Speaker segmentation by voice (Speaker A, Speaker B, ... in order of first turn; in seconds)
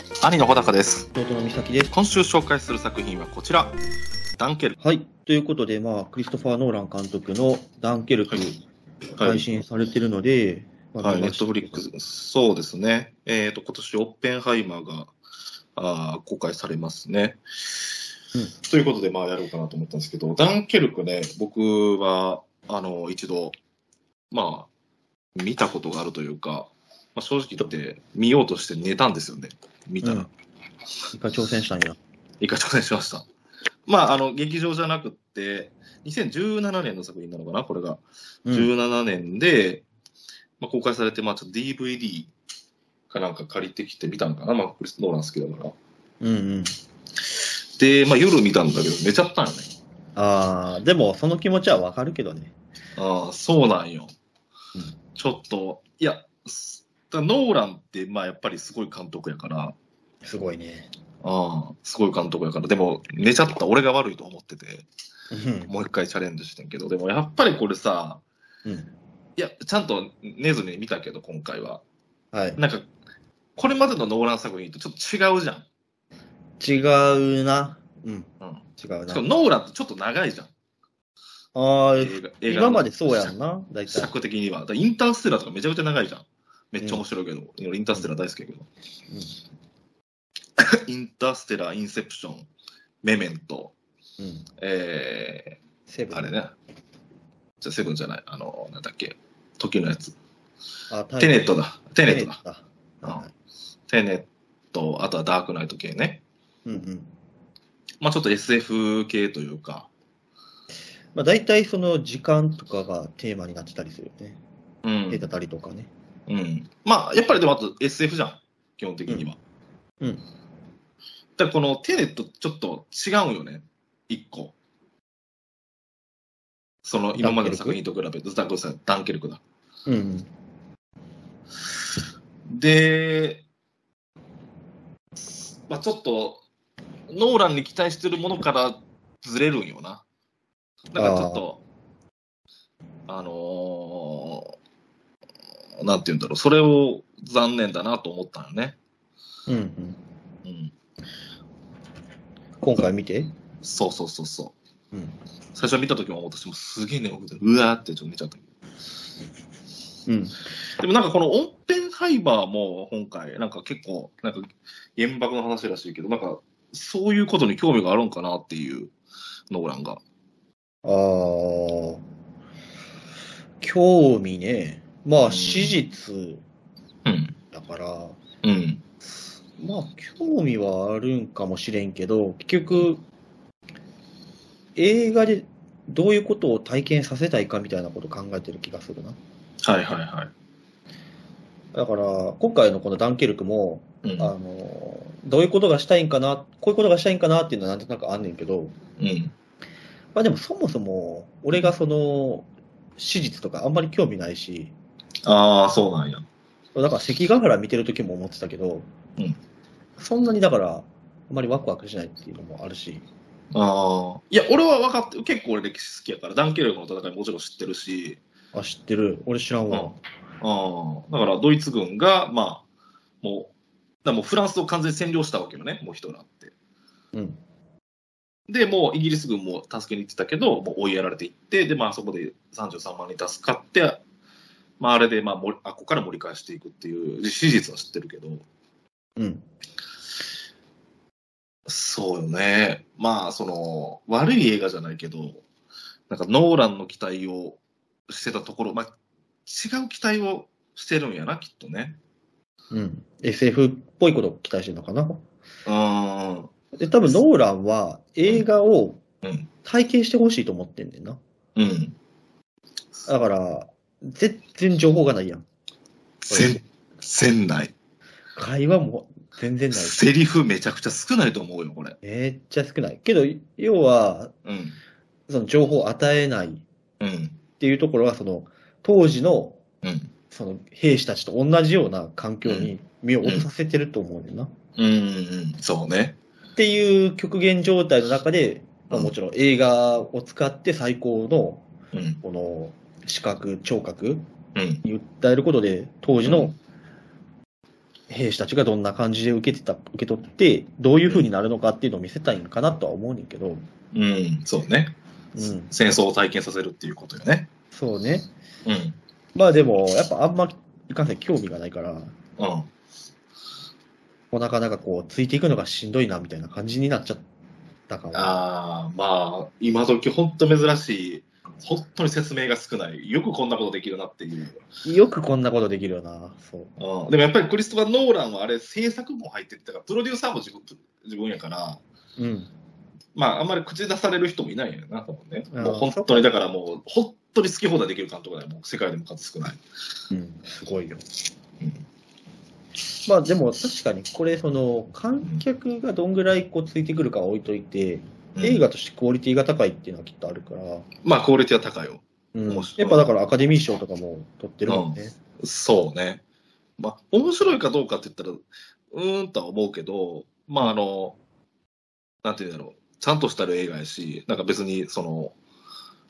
Speaker A: 0.2-1.1, 1.9-3.8, 4.4-4.8, 9.2-9.5, 11.0-15.1, 15.8-17.4, 18.6-23.6, 24.3-24.7, 25.4-30.3, 32.4-33.3, 33.9-39.9, 40.6-42.3, 43.1-45.8, 47.3-49.7, 53.0-54.1, 55.2-59.8, 61.2-64.9, 65.7-68.2, 69.4-71.8, 72.6-72.9, 73.6-75.7, 78.4-80.5, 82.0-83.3, 83.9-88.7, 90.6-92.5, 93.0-93.7, 94.6-95.6, 96.1-96.5, 97.6-100.2, 101.2-102.4, 103.9-106.2, 108.0-109.9, 114.8-115.3, 116.3-119.4, 121.4-124.5, 126.8-129.4, 132.5-133.4, 135.2-136.4, 137.1-140.0, 140.9-141.6, 143.1-144.5, 145.8-148.8, 150.4-150.7, 153.6-154.6, 155.5-158.4, 160.8-168.9, 169.5-170.0, 175.2-175.8, 177.1-177.4, 178.4-178.8, 189.6-190.3, 194.0-194.3, 199.0-199.3, 205.2-206.3, 213.5-218.2, 219.7-222.7, 223.2-223.5, 224.0-226.5, 228.5-234.0, 234.8-238.4, 241.7-245.4, 246.1-248.9, 249.5-252.0, 255.7-256.5, 259.2-259.5, 261.6-262.0, 266.2-267.7, 269.7-272.0, 274.4-274.8, 277.0-277.4, 279.8-280.1, 282.4-283.5, 284.8-286.2, 291.9-292.2, 294.6-294.8, 296.2-296.6, 303.9-307.5, 308.7-309.0, 312.4-312.7, 318.1-324.6, 326.8-331.8, 333.1-339.6, 348.4-348.7, 351.1-353.1, 354.7-356.2, 356.8-361.2, 362.2-365.4
Speaker B: 1.1-2.0, 4.8-8.6, 9.2-11.8, 30.0-30.3, 31.1-32.0, 38.5-38.7, 46.2-46.7, 50.2-52.5, 60.2-60.9, 65.3-65.7, 68.7-68.9, 72.3-72.6, 76.6-79.3, 81.5-84.1, 86.8-87.0, 89.1-89.4, 94.2-94.5, 95.9-96.4, 100.9-103.3, 106.7-107.1, 111.1-114.4, 115.1-115.9, 127.2-127.8, 129.9-130.3, 141.0-141.5, 149.5-150.0, 152.6-153.3, 160.1-160.4, 170.8-172.0, 173.6-176.4, 177.5-178.2, 179.0-183.0, 184.8-189.2, 191.7-198.8, 200.1-204.7, 206.7-208.9, 210.0-213.1, 218.5-220.0, 227.1-227.4, 239.2-239.5, 252.7-255.2, 256.7-259.0, 259.6-261.2, 263.1-265.5, 266.3-266.6, 268.4-270.0, 272.0-274.3, 275.3-276.6, 277.6-279.6, 280.3-284.5, 286.6-291.6, 292.2-294.3, 294.8-296.5, 298.1-303.6, 305.4-305.7, 307.7-308.3, 309.4-312.1, 314.3-317.2, 317.9-318.4, 324.8-326.7, 332.2-332.5, 335.5-336.3, 340.1-341.0, 343.1-350.9, 352.3-355.2